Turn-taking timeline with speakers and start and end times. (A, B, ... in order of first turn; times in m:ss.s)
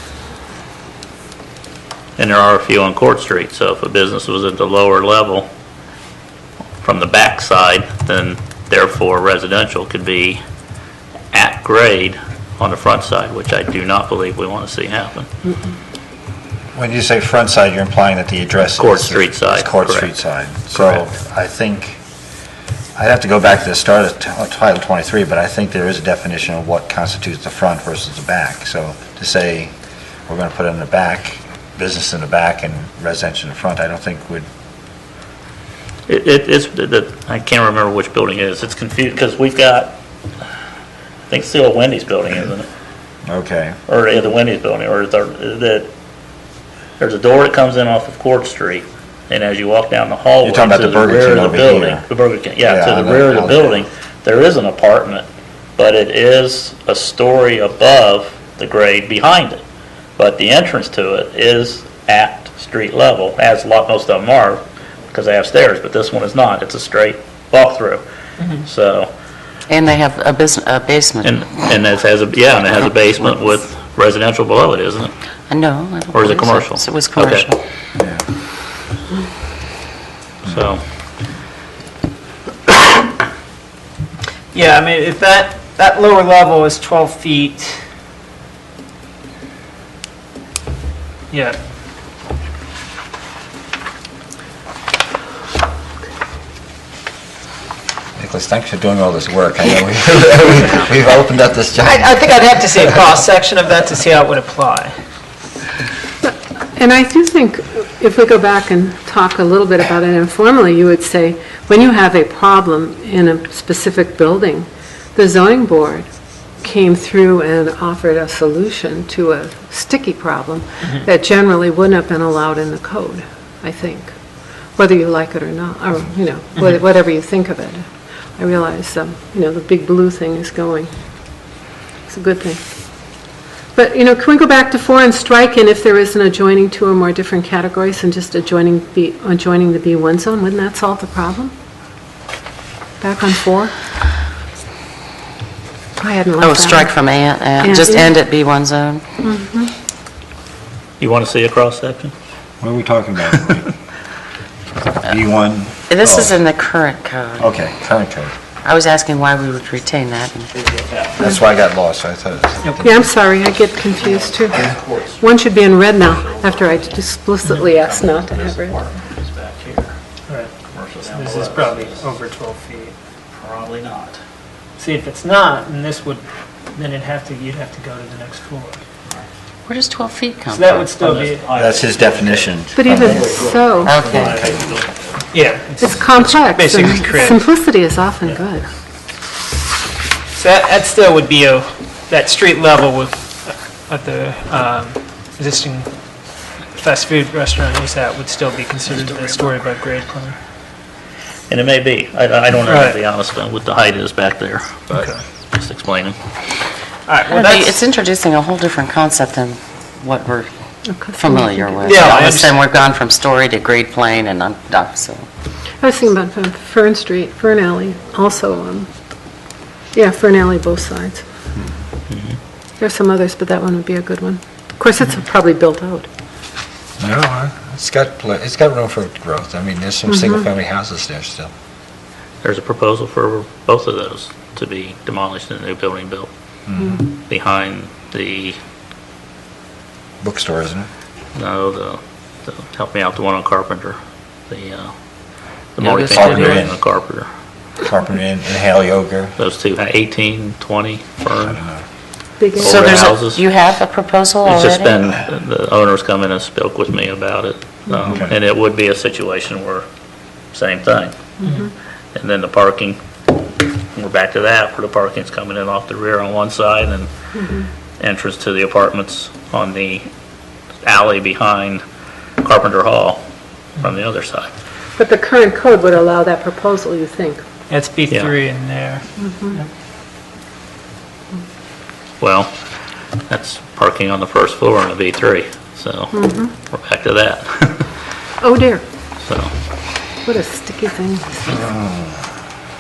0:02.2-0:05.5 A
0:06.8-0:10.4 A
0:11.3-0:15.3 A
0:16.7-0:22.0 B
0:18.8-0:20.1 A
0:20.7-0:21.1 A
0:23.0-0:29.7 B
0:30.3-0:34.5 B
0:36.1-0:40.0 A
0:41.3-0:42.7 A
0:43.3-0:43.8 B
0:43.9-0:45.9 A
0:47.0-0:59.6 A
0:50.4-0:52.0 B
0:52.6-0:53.8 B
1:00.2-1:08.0 A
1:08.6-1:09.1 A
1:09.7-1:11.4 C
1:11.2-1:15.1 A
1:15.5-1:17.6 C
1:16.1-1:17.5 A
1:18.0-1:18.2 B
1:20.5-1:20.8 A
1:24.5-1:27.8 D
1:31.3-1:31.6 D
1:38.2-1:42.2 B
1:41.8-1:44.9 D
1:46.2-1:56.1 E
1:56.6-2:04.2 E
2:04.8-2:10.9 E
2:12.1-2:12.6 E
2:13.8-2:21.5 E
2:23.0-2:23.7 E
2:26.0-2:27.0 E
2:26.4-2:29.0 C
2:27.6-2:28.1 E
2:29.2-2:29.7 E
2:31.0-2:32.1 A
2:32.6-2:33.7 B
2:35.0-2:36.4 B
2:35.9-2:37.5 C
2:37.4-2:38.3 B
2:38.6-2:40.5 C
2:40.5-2:41.5 A
2:41.2-2:43.1 B
2:42.8-2:48.8 E
2:43.9-2:50.0 A
2:50.3-2:50.5 D
2:50.6-2:52.1 A
2:51.1-2:53.0 D
2:53.3-2:54.2 A
2:54.8-2:58.8 D
2:59.7-3:00.9 C
3:00.5-3:01.5 D
3:01.0-3:05.2 A
3:01.6-3:03.5 B
3:02.8-3:03.9 E
3:03.8-3:04.5 C
3:04.2-3:04.8 B
3:05.3-3:07.4 D
3:05.8-3:08.7 E
3:10.3-3:15.9 D
3:16.7-3:20.4 D
3:19.2-3:19.5 A
3:21.5-3:24.9 A
3:22.7-3:23.0 D
3:24.9-3:25.2 D
3:25.6-3:26.2 A
3:27.1-3:27.8 D
3:27.3-3:30.5 C
3:30.9-3:32.1 E
3:31.1-3:35.3 C
3:31.8-3:32.6 D
3:35.8-3:38.9 E
3:39.9-3:41.2 E
3:42.1-3:42.4 A
3:42.8-3:46.1 E
3:47.0-3:51.5 B
3:50.1-3:50.5 E
3:52.4-3:56.3 A
3:56.7-3:57.0 B
3:57.2-3:58.6 A
4:00.2-4:00.9 B
4:01.4-4:04.9 A
4:05.8-4:07.3 A
4:05.8-4:06.7 C
4:06.1-4:06.8 B
4:07.8-4:09.4 B
4:09.4-4:11.6 A
4:11.4-4:11.8 B
4:12.4-4:12.8 E
4:12.6-4:13.4 A
4:12.6-4:14.9 C
4:14.4-4:19.9 A
4:18.0-4:18.3 B
4:20.5-4:21.2 A
4:22.2-4:23.0 A
4:24.0-4:27.1 A
4:27.4-4:27.7 E
4:28.0-4:30.1 A
4:30.8-4:31.8 A
4:32.4-4:33.3 A
4:33.8-4:34.5 A
4:35.0-4:37.4 E
4:37.7-4:39.7 D
4:38.1-4:38.3 A
4:39.2-4:39.6 E
4:42.2-4:42.6 A
4:43.3-4:47.9 A
4:46.1-4:46.5 E
4:48.4-4:48.8 E
4:49.2-4:49.5 A
4:50.3-4:51.6 E